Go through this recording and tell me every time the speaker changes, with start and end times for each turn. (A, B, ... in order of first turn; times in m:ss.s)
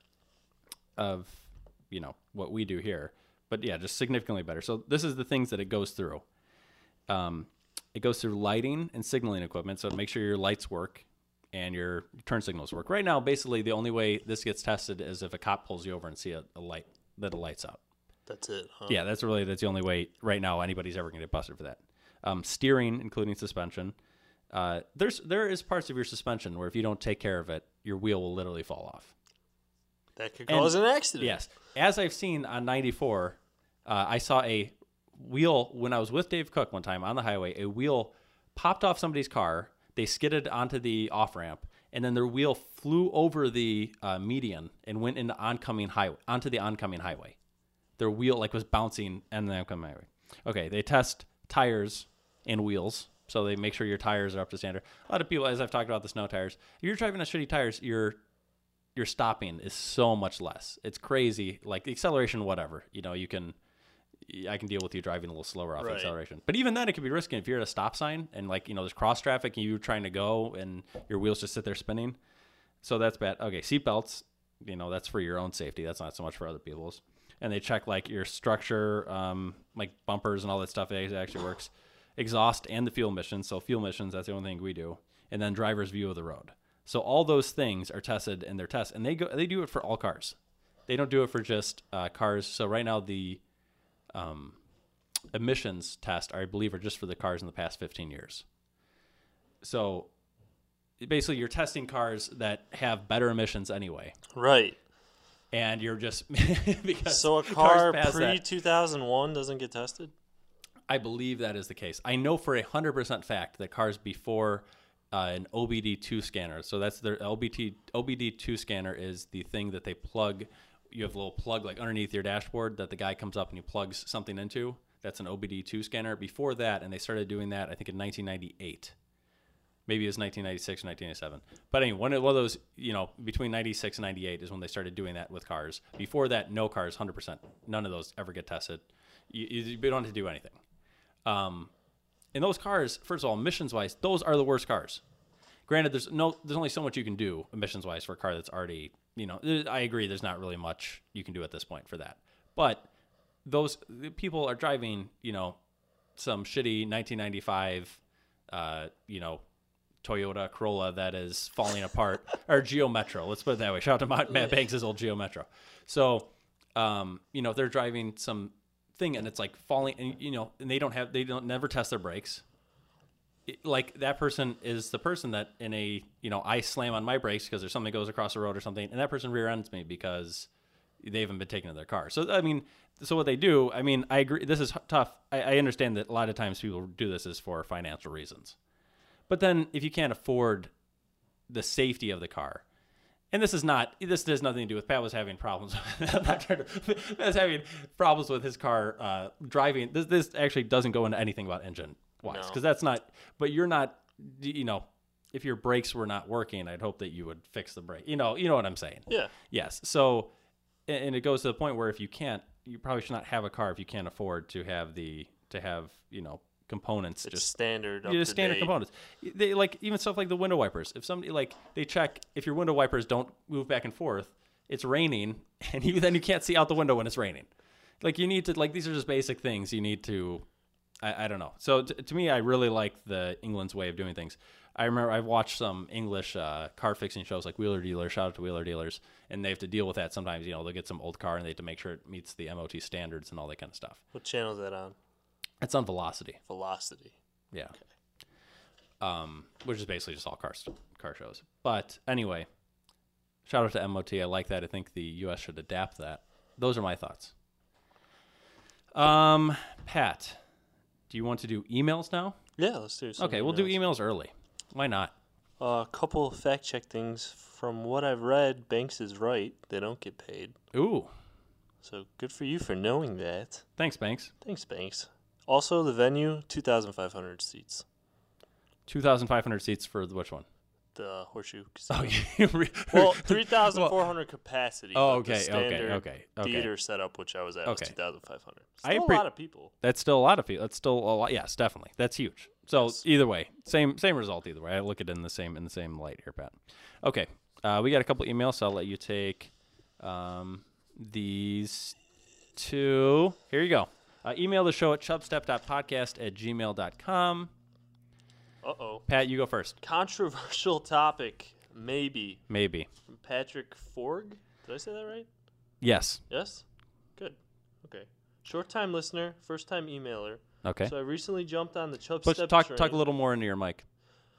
0:01.0-0:06.2 A
0:07.1-0:17.8 A
0:18.3-0:19.0 B
0:18.9-0:24.0 A
0:24.5-0:29.1 A
0:30.2-0:31.4 B
0:30.5-0:47.4 A
0:48.0-0:58.2 A
0:59.0-1:03.6 A
1:04.2-1:12.2 A
1:05.8-1:06.1 B
1:12.8-1:30.4 A
1:30.9-1:33.4 A
1:34.1-1:34.6 A
1:35.3-1:38.4 A
1:39.6-1:40.1 A
1:41.0-1:44.2 A
1:44.3-1:44.8 B
1:45.5-1:48.4 A
1:47.1-1:50.1 B
1:50.9-2:09.0 A
2:09.9-2:20.6 A
2:21.2-2:21.7 A
2:22.3-2:25.0 A
2:25.7-2:32.9 A
2:33.4-2:35.6 A
2:36.2-2:39.4 A
2:40.0-2:52.4 A
2:53.5-3:00.5 A
3:01.0-3:08.6 A
3:09.3-3:10.7 A
3:11.5-3:12.6 A
3:13.3-3:30.3 A
3:22.2-3:22.6 B
3:29.1-3:29.3 B
3:30.9-3:37.5 A
3:37.2-3:38.7 B
3:38.0-3:47.5 A
3:48.0-3:50.4 A
3:51.0-4:04.0 A
4:04.1-4:05.0 B
4:05.6-4:06.4 A
4:06.5-4:07.2 B
4:09.0-4:12.5 A
4:13.5-4:17.3 A
4:18.9-4:20.4 A
4:21.1-4:22.4 A
4:22.6-4:23.8 B
4:23.2-4:25.1 A
4:25.6-4:30.6 B
4:30.7-4:31.1 A
4:31.8-4:33.6 B
4:33.8-4:34.3 A
4:34.4-4:37.8 B
4:38.9-4:40.5 A
4:41.0-4:42.2 B
4:41.9-4:44.0 A
4:42.9-4:49.7 B
4:44.9-4:46.7 A
4:47.6-4:47.9 A
4:48.8-4:49.3 A
4:49.8-5:02.0 A
4:52.8-4:53.0 B
5:02.6-5:07.5 A
5:08.6-5:09.0 B
5:09.1-5:09.8 A
5:09.8-5:12.4 B
5:12.5-5:12.9 A
5:13.1-5:15.3 B
5:15.8-5:16.2 A
5:16.3-5:16.6 B
5:17.2-5:23.0 B
5:20.6-5:21.0 A
5:22.2-5:23.8 A